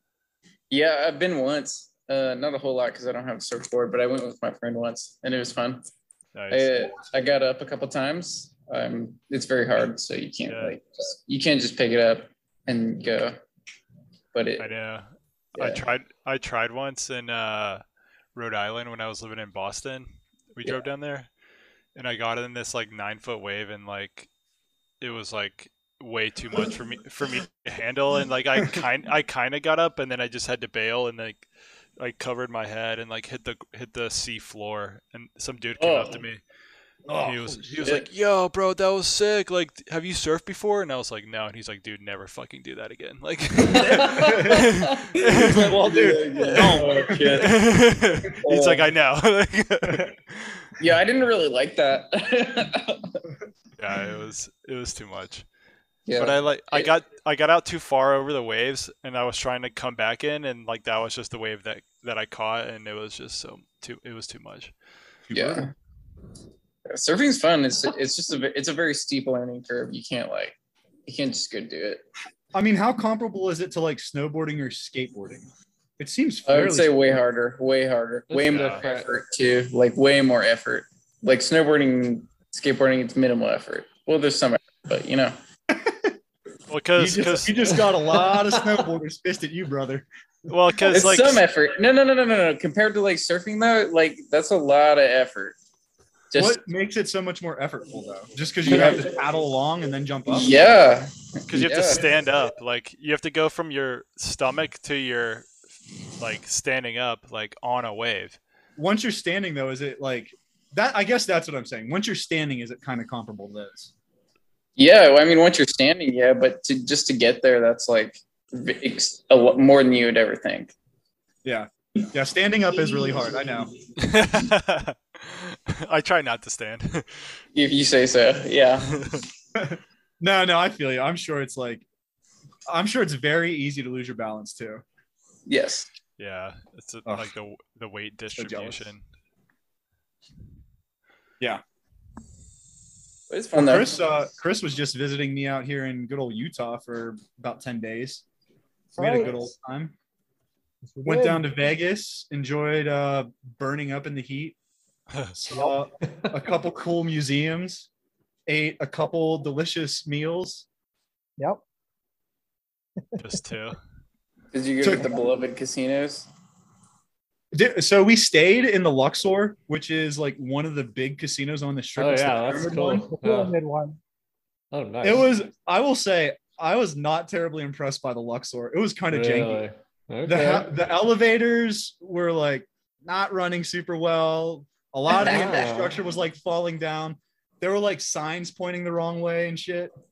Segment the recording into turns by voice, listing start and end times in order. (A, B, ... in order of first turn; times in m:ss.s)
0:00.7-0:05.8 A
0:06.4-0:07.0 B
0:06.5-0:13.4 A
0:10.5-0:10.8 B
0:14.3-0:14.7 A
0:14.6-0:17.8 B
0:15.6-0:15.8 A
0:18.4-0:21.3 B
0:22.0-0:24.3 B
0:25.0-0:31.5 B
0:32.0-0:36.4 B
0:35.8-0:36.2 A
0:37.1-0:37.9 C
0:37.2-0:45.8 B
0:43.8-0:44.6 A
0:44.0-0:44.7 C
0:45.1-0:47.6 A
0:45.2-0:47.4 C
0:47.4-0:50.5 B
0:48.3-0:48.9 A
0:50.8-0:53.2 A
0:53.8-0:55.5 B
0:56.0-0:56.9 A
0:56.2-1:04.7 B
1:05.3-1:05.7 C
1:05.3-1:05.7 A
1:06.9-1:10.5 A
1:11.0-1:12.0 A
1:12.5-1:15.5 C
1:16.0-1:17.2 C
1:16.5-1:25.4 A
1:18.3-1:19.1 D
1:18.5-1:18.8 B
1:25.7-1:26.1 C
1:26.7-1:27.9 B
1:27.0-1:30.1 C
1:30.5-1:31.4 B
1:30.9-1:35.6 A
1:36.3-1:36.6 A
1:36.4-1:40.5 C
1:38.6-1:39.1 A
1:40.3-1:42.0 A
1:41.5-1:45.6 B
1:46.2-1:48.4 B
1:48.8-1:53.9 C
1:54.8-2:00.7 A
2:01.4-2:03.7 C
2:04.0-2:07.4 B
2:07.5-2:09.2 A
2:08.9-2:09.2 B
2:09.5-2:11.9 C
2:12.7-2:14.8 C
2:15.5-2:15.9 A
2:16.2-2:19.0 B
2:18.4-2:18.9 C
2:23.3-2:24.0 A
2:23.5-2:28.2 C
2:28.9-2:29.5 E
2:29.0-2:30.0 C
2:30.8-2:31.4 E
2:31.0-2:34.6 C
2:35.3-2:37.9 C
2:38.5-2:40.6 C
2:43.2-2:43.8 B
2:44.5-2:46.3 A
2:44.8-2:45.1 C
2:47.5-2:53.1 C
2:52.0-2:53.5 D
2:53.1-2:54.0 E
2:54.7-2:55.3 D
2:55.0-2:59.6 C
2:59.1-3:00.7 D
3:00.2-3:09.9 C
3:05.1-3:06.0 D
3:05.2-3:05.5 A